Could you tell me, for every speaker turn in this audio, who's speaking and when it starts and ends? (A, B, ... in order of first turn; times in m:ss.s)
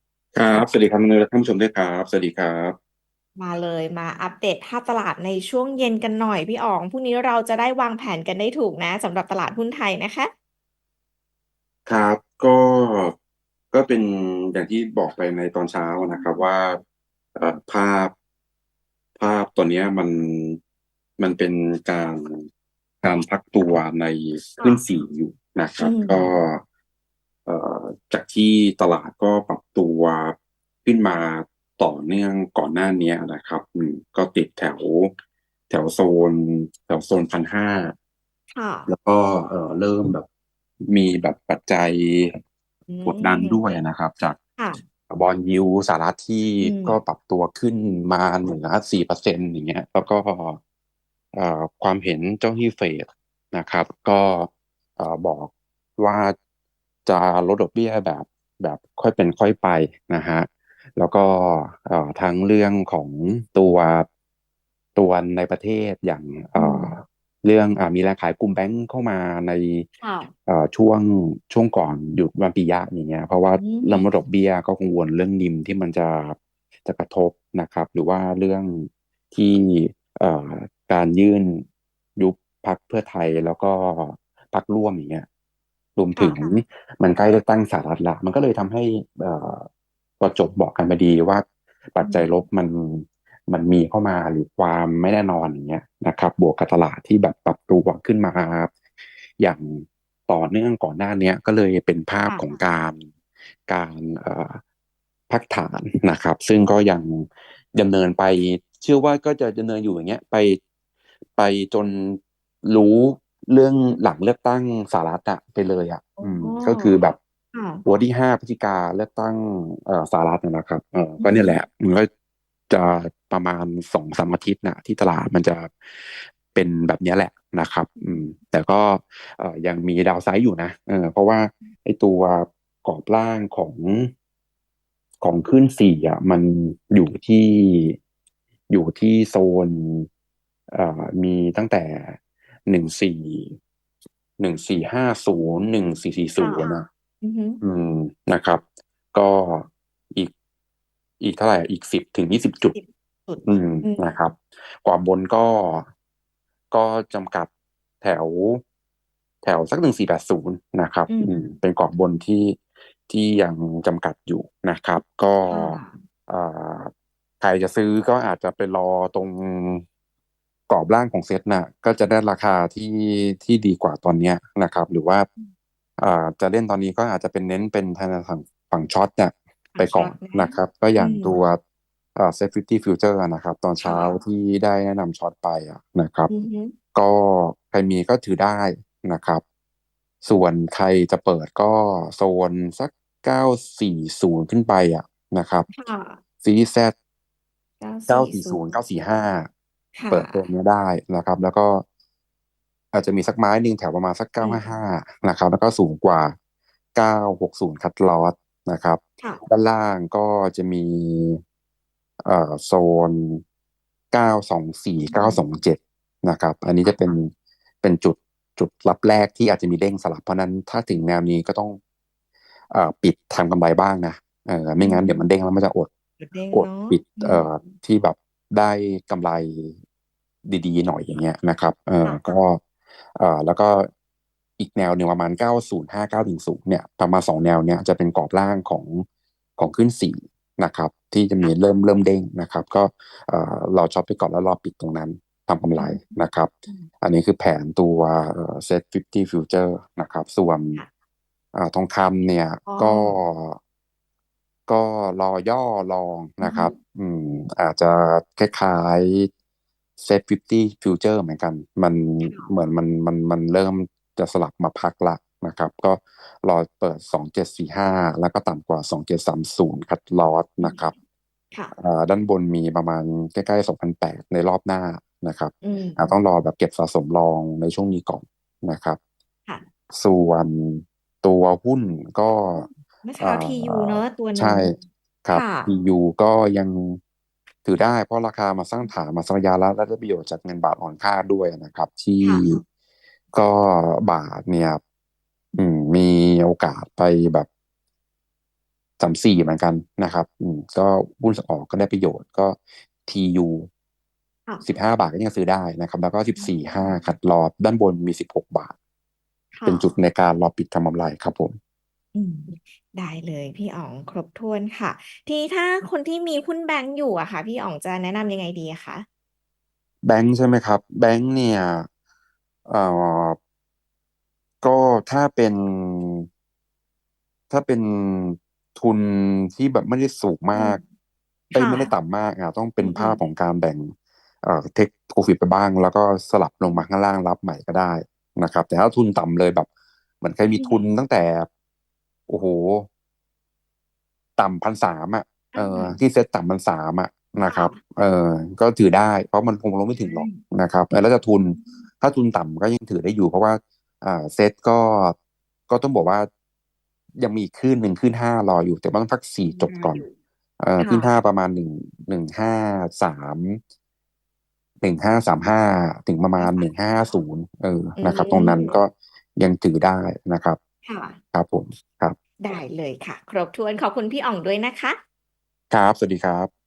0:00.3-0:02.8 A
0:03.4-0:10.3 B
0:11.8-0:13.1 A
0:13.7-0:16.8 A
0:16.0-0:16.4 B
0:17.3-0:18.1 A
0:19.2-0:20.6 A
0:21.2-0:22.5 A
0:23.0-0:26.6 A
0:24.6-0:24.8 B
0:25.8-0:26.4 B
0:27.4-0:35.1 A
0:35.7-0:37.9 A
0:38.5-0:38.9 B
0:38.9-0:40.2 A
0:40.8-0:42.4 A
0:42.9-0:43.6 B
0:43.0-0:44.4 A
0:45.1-0:50.6 A
0:46.6-0:47.0 B
0:51.3-0:56.4 A
0:57.0-1:04.1 A
1:05.0-1:09.9 A
1:06.6-1:07.0 B
1:10.0-1:10.3 B
1:10.4-1:25.3 A
1:13.6-1:14.1 B
1:26.0-1:29.7 A
1:26.2-1:26.6 B
1:30.2-1:38.7 A
1:32.0-1:32.3 B
1:39.4-1:43.1 A
1:42.3-1:42.6 B
1:43.7-1:44.6 A
1:45.3-1:50.6 A
1:51.3-1:57.2 A
1:56.2-1:57.0 B
1:57.5-1:57.8 B
1:57.8-2:02.1 A
2:01.2-2:01.6 B
2:02.7-2:14.1 A
2:15.2-2:18.0 A
2:18.7-2:20.1 A
2:20.7-2:23.6 A
2:24.4-2:26.9 A
2:26.4-2:27.6 B
2:27.6-2:30.3 A
2:31.2-2:32.7 A
2:32.7-2:34.1 B
2:33.4-2:35.9 A
2:36.7-2:37.5 A
2:38.0-2:38.6 A
2:39.4-2:49.8 A
2:41.1-2:41.5 B
2:45.5-2:46.0 B
2:50.7-2:55.3 A
2:56.0-3:01.6 A
2:59.7-3:01.3 B
3:02.1-3:06.3 A
3:03.8-3:04.2 B
3:06.3-3:06.7 B
3:06.9-3:09.4 A
3:10.2-3:15.7 A
3:15.7-3:16.2 B
3:16.4-3:16.9 A
3:17.8-3:18.6 B
3:18.1-3:19.5 A
3:19.9-3:20.5 B
3:20.1-3:21.8 A
3:22.9-3:26.4 A
3:24.4-3:24.7 B
3:26.9-3:31.4 A
3:32.2-3:33.4 A
3:34.1-3:37.3 A
3:35.1-3:35.4 B
3:37.8-3:41.8 A
3:42.7-3:45.9 A
3:44.8-3:45.3 B
3:46.2-3:47.7 B
3:46.5-3:49.8 A
3:50.4-3:52.6 A
3:52.0-3:52.3 B
3:53.1-3:53.9 A
3:54.6-3:59.0 A
3:59.6-4:10.8 A
4:05.8-4:06.9 B
4:11.5-4:13.6 A
4:12.6-4:13.2 B
4:14.7-4:19.3 A
4:16.4-4:16.7 B
4:20.0-4:30.9 A
4:22.2-4:22.5 B
4:31.8-4:39.0 A
4:35.6-4:36.2 B
4:39.9-4:42.7 A
4:42.5-4:44.7 B
4:43.2-4:47.0 A
4:45.3-4:45.7 B
4:47.6-4:52.6 A
4:53.3-4:54.8 A
4:55.5-4:57.5 A
4:59.0-5:03.7 A
5:04.6-5:08.7 A
5:06.3-5:07.1 B
5:09.5-5:09.9 B
5:09.6-5:11.6 A
5:12.1-5:19.0 B
5:20.0-5:21.9 A
5:22.6-5:23.4 A
5:24.6-5:26.3 A
5:27.5-5:30.8 A
5:30.5-5:30.8 B
5:31.5-5:39.7 A
5:31.5-5:31.9 B
5:32.8-5:33.2 B
5:40.2-5:41.5 A
5:40.5-5:40.9 B
5:42.3-5:42.9 A
5:44.4-5:55.2 A
5:45.5-5:46.0 B
5:47.4-5:47.8 B
5:49.9-5:50.4 B
5:51.5-5:51.8 B
5:55.7-5:56.3 A
5:57.2-6:00.0 A
5:59.5-6:00.1 B
6:00.6-6:03.6 A
6:00.8-6:01.1 B
6:04.8-6:10.6 A
6:06.4-6:06.7 B
6:08.0-6:08.8 B
6:10.8-6:11.2 B
6:11.3-6:12.2 A
6:12.4-6:15.0 B
6:15.7-6:16.5 A